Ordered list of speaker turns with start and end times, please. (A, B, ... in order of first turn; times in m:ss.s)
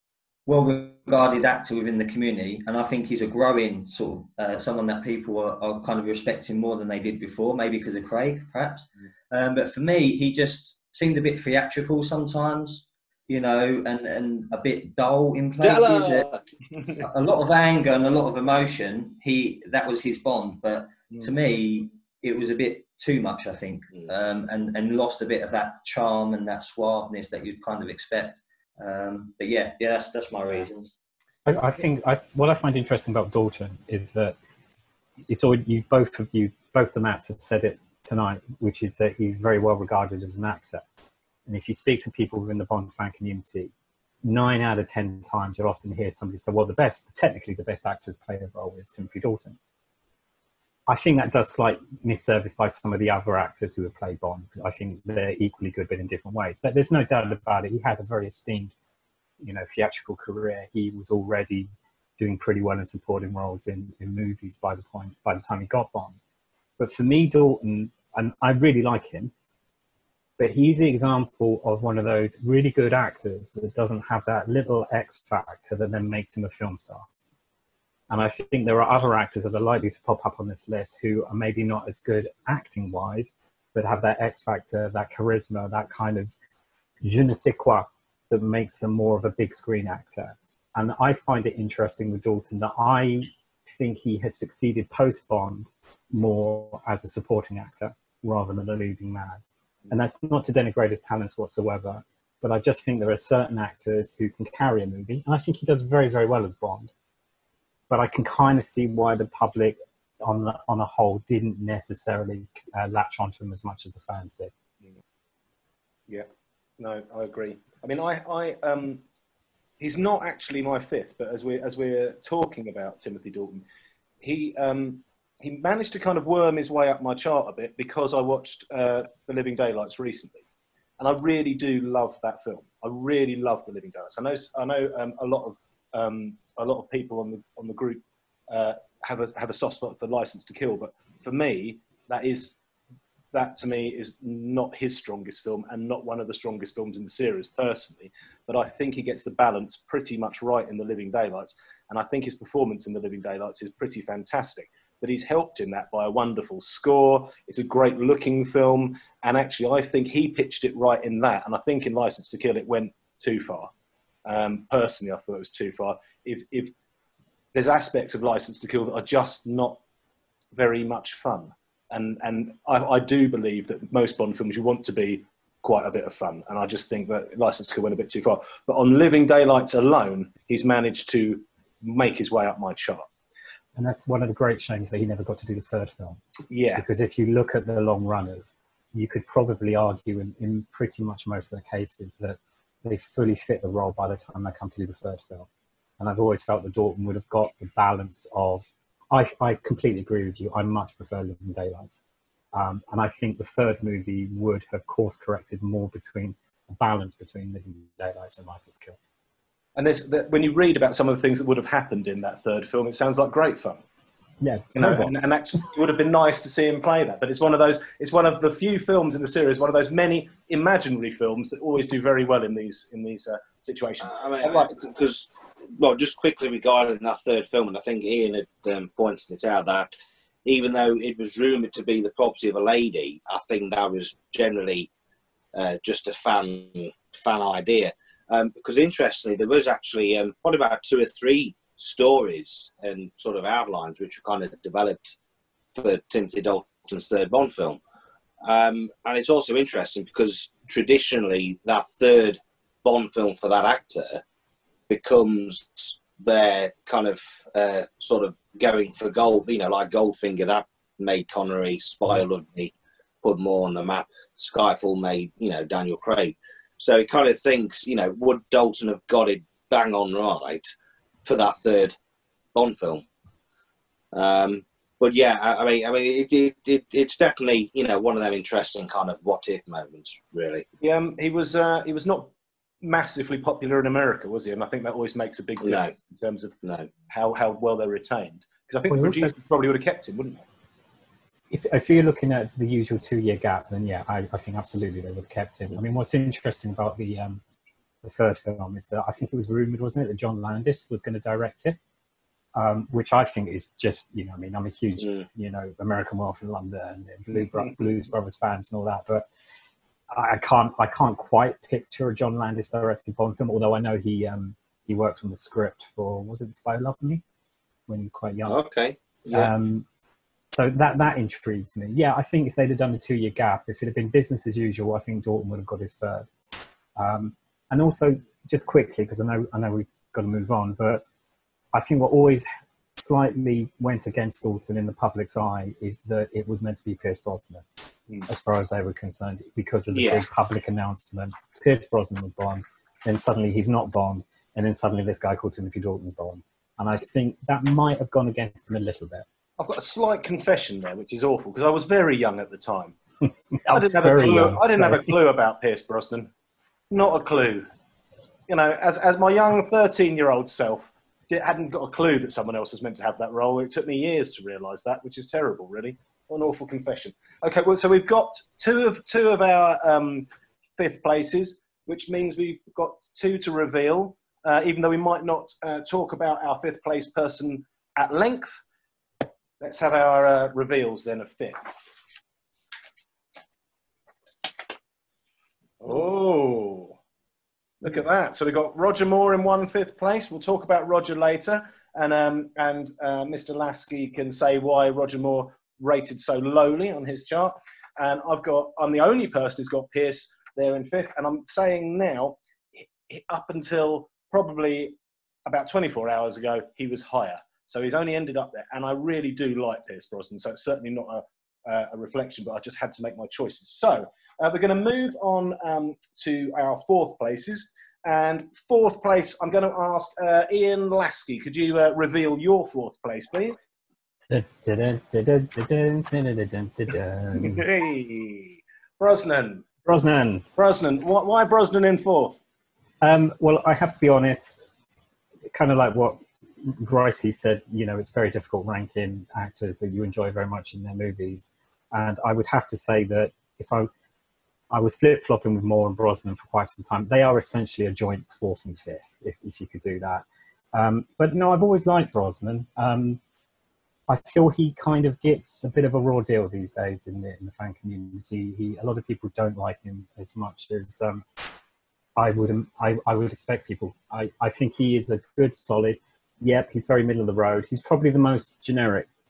0:00.5-0:16.3 A
0:15.6-0:16.4 B
0:17.0-0:30.9 A
0:31.5-0:34.4 C
0:35.3-0:40.8 C
0:41.5-0:43.7 C
0:44.2-0:49.6 C
0:50.9-0:58.7 C
0:59.4-1:06.2 C
1:06.8-1:09.3 C
1:10.4-1:17.1 C
1:18.1-1:26.3 C
1:27.0-1:46.9 C
1:47.9-1:54.5 C
1:56.8-1:59.0 D
1:59.8-2:03.6 D
2:04.2-2:10.4 D
2:11.0-2:22.6 D
2:23.3-2:43.7 D
2:44.2-2:46.7 D
2:47.5-2:49.8 D
2:50.5-3:03.1 D
3:03.8-3:06.2 C
3:06.5-3:06.8 D
3:06.8-3:15.5 C
3:16.0-3:22.0 C
3:22.5-3:29.0 C
3:29.8-3:33.8 D
3:34.4-3:35.3 C
3:34.8-3:44.7 D
3:44.0-3:49.9 B
3:50.5-3:54.9 B
3:55.5-4:05.2 B
4:05.8-4:07.8 B
4:08.4-4:14.2 B
4:14.9-4:30.7 B
4:31.2-4:32.0 B
4:32.6-4:33.0 B
4:34.1-4:40.6 B
4:40.8-4:46.6 D
4:45.6-4:45.9 B
4:46.6-4:46.9 B
4:47.1-4:50.4 D
4:48.9-4:49.3 C
4:51.5-4:57.4 C
4:58.0-5:01.8 C
5:02.6-5:09.3 C
5:10.1-5:17.2 C
5:17.9-5:18.6 C
5:18.5-5:19.5 B
5:19.3-5:19.9 C
5:20.5-5:26.3 C
5:27.0-5:31.0 C
5:31.7-5:32.5 C
5:33.0-5:37.6 C
5:38.3-5:49.3 C
5:39.9-5:40.2 B
5:49.6-5:53.0 D
5:53.6-5:55.2 C
5:53.6-5:56.3 D
5:56.9-5:57.7 D
5:58.5-6:18.6 D
6:19.6-6:21.7 D
6:25.8-6:27.0 D
6:27.8-7:03.6 D
7:04.3-7:07.6 C
7:07.4-7:09.7 D
7:09.8-7:10.4 C
7:10.6-7:12.4 D
7:13.0-7:14.6 C
7:15.5-7:23.9 C
7:24.7-7:33.2 C
7:34.1-7:41.2 C
7:42.2-7:49.1 C